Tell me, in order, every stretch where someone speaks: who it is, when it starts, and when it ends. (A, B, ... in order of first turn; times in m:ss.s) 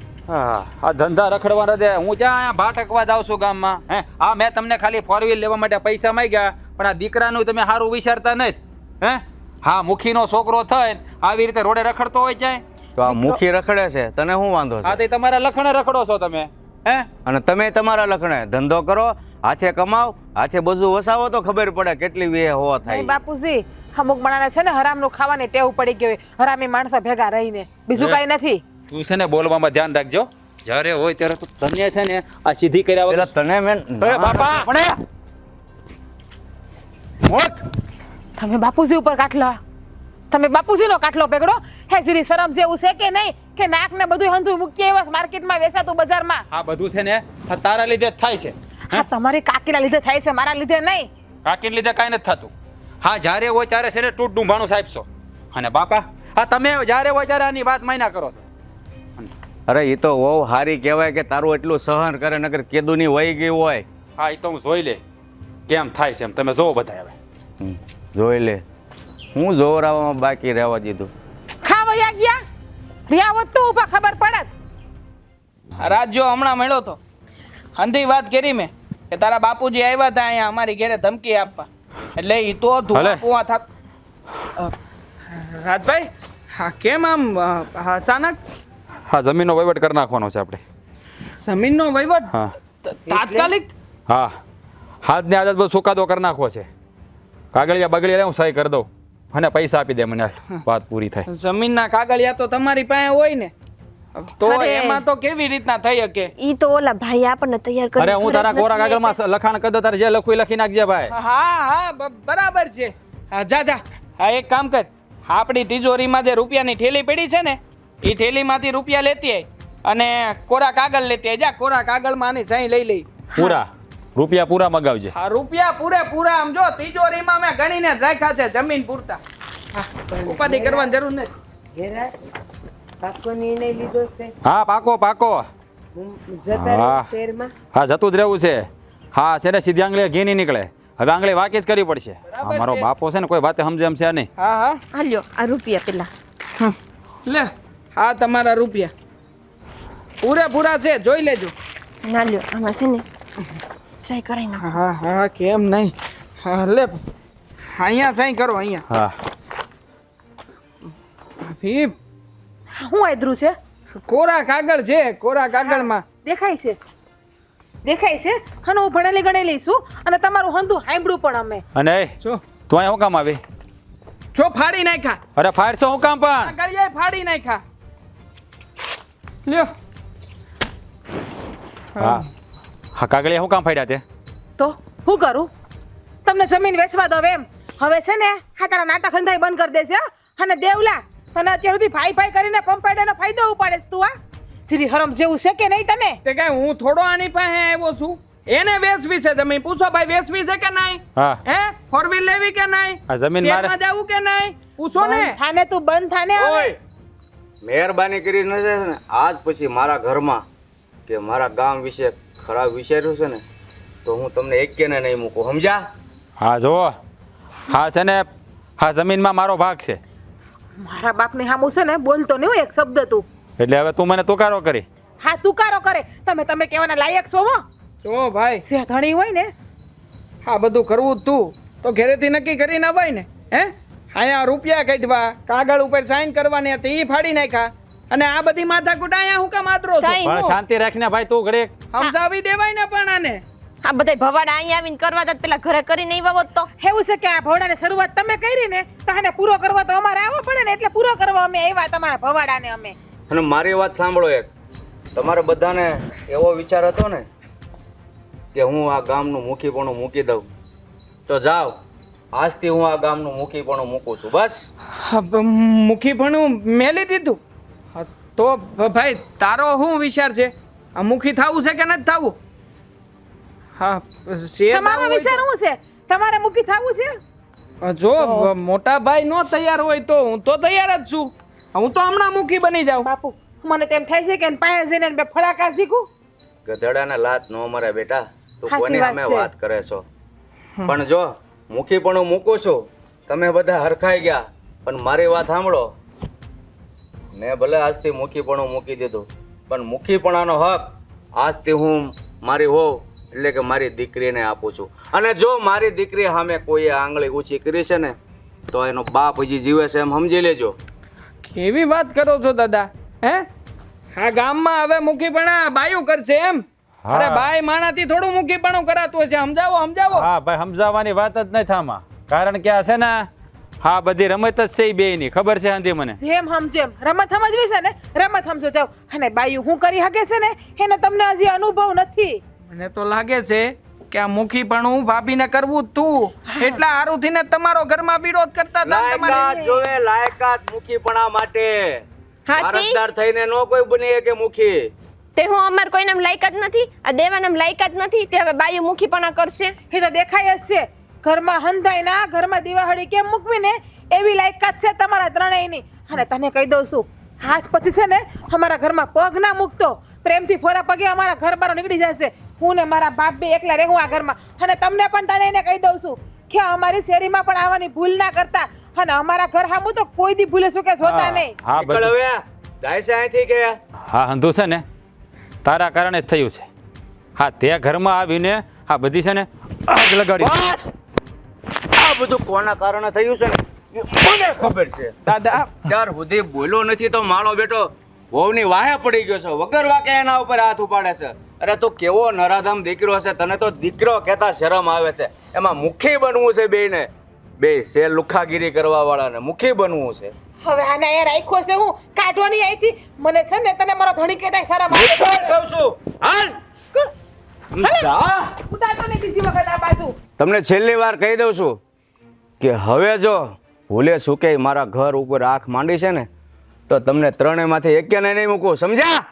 0:00.3-0:12.6 A
0:13.0-0:15.0 B
0:13.0-0:13.4 C
0:14.8-0:17.1 A
0:17.2-0:23.1 B
0:22.8-0:28.6 C
0:27.9-0:28.2 A
0:28.9-0:33.3 A
0:33.1-0:34.5 B
0:34.0-0:35.0 A
0:37.2-0:37.6 A
0:38.4-0:39.6 C
0:40.3-0:46.4 C
0:46.5-0:49.0 A
0:48.9-0:51.1 C
0:51.4-0:58.5 A
0:59.7-1:03.8 B
1:04.2-1:05.0 A
1:05.7-1:07.1 A
1:07.6-1:08.6 B
1:09.3-1:11.1 B
1:11.6-1:12.4 C
1:13.1-1:14.5 C
1:15.8-1:17.0 D
1:17.8-1:23.6 D
1:22.9-1:23.2 A
1:25.3-1:28.4 D
1:29.1-1:30.6 A
1:31.4-1:32.3 D
1:32.8-1:33.7 D
1:33.1-1:33.5 E
1:34.1-1:34.3 A
1:35.0-1:36.7 A
1:37.5-1:41.2 A
1:41.3-1:43.5 D
1:44.2-1:46.3 D
1:44.4-1:45.0 F
1:46.4-1:49.2 F
1:48.0-1:51.1 A
1:51.1-2:03.2 D
2:03.4-2:05.1 A
2:05.1-2:09.2 D
2:09.8-2:10.9 E
2:10.2-2:11.3 D
2:11.7-2:12.3 E
2:13.0-2:14.3 E
2:14.4-2:15.4 A
2:15.9-2:17.5 E
2:16.5-2:17.1 A
2:17.7-2:24.3 A
2:22.3-2:22.9 D
2:24.4-2:24.8 D
2:24.9-2:26.1 F
2:27.2-2:28.9 D
2:30.2-2:31.5 D
2:32.0-2:33.0 F
2:34.0-2:34.7 F
2:34.6-2:37.0 D
2:37.7-2:38.8 D
2:38.9-2:39.2 A
2:41.4-2:41.9 D
2:42.7-2:43.5 C
2:44.0-2:46.0 D
2:45.6-2:46.7 C
2:47.8-2:51.6 C
2:51.7-2:52.1 A
2:52.7-2:53.4 A
2:54.3-2:55.2 D
2:55.4-2:56.5 A
2:56.4-2:57.6 D
2:59.4-2:59.7 D
3:02.0-3:02.2 D
3:02.0-3:02.2 A
3:02.9-3:04.0 A
3:04.6-3:05.5 C
3:06.2-3:14.1 C
3:14.7-3:16.2 C
3:16.2-3:25.4 D
3:23.1-3:23.7 A
3:24.9-3:26.7 C
3:26.4-3:26.7 B
3:27.6-3:30.4 B
3:31.1-3:33.4 B
3:34.0-3:35.8 B
3:36.4-3:37.0 A
3:37.7-3:38.2 A
3:38.8-3:40.0 A
3:40.8-3:43.2 C
3:43.6-3:44.8 A
3:45.2-3:47.6 C
3:48.0-3:48.6 D
3:48.6-3:49.5 C
3:50.4-4:00.3 D
4:00.0-4:00.6 F
4:00.2-4:01.7 A
4:01.9-4:03.4 D
4:03.8-4:06.7 F
4:06.8-4:12.9 C
4:13.3-4:14.5 B
4:15.1-4:17.3 B
4:18.5-4:20.5 B
4:21.3-4:21.8 B
4:22.3-4:24.7 B
4:24.9-4:27.4 D
4:27.9-4:32.4 D
4:33.8-4:35.4 D
4:34.7-4:37.1 C
4:37.8-4:43.1 D
4:38.2-4:38.5 C
4:43.0-4:46.1 C
4:46.6-4:50.0 B
4:48.7-4:49.5 C
4:50.8-4:55.9 B
4:57.3-5:08.2 B
5:08.7-5:10.8 B
5:11.4-5:13.5 D
5:14.1-5:20.3 D
5:17.0-5:17.5 A
5:20.1-5:23.3 A
5:23.8-5:26.2 A
5:26.2-5:32.4 C
5:32.7-5:39.6 D
5:36.5-5:36.8 C
5:38.8-5:42.0 B
5:39.3-5:39.7 C
5:42.5-5:43.0 F
5:42.6-5:44.9 B
5:45.4-5:49.7 F
5:49.9-6:11.5 C
6:11.0-6:12.1 A
6:11.8-6:13.8 B
6:14.1-6:14.8 A
6:15.6-6:16.7 A
6:17.4-6:20.5 A
6:20.4-6:20.8 B
6:21.9-6:37.1 B
6:25.2-6:25.8 D
6:37.6-6:40.3 B
6:40.6-6:45.5 C
6:44.9-6:46.5 B
6:47.8-6:48.4 B
6:47.8-6:50.1 C
6:50.4-6:51.8 B
6:52.6-6:56.3 B
6:56.9-6:59.2 B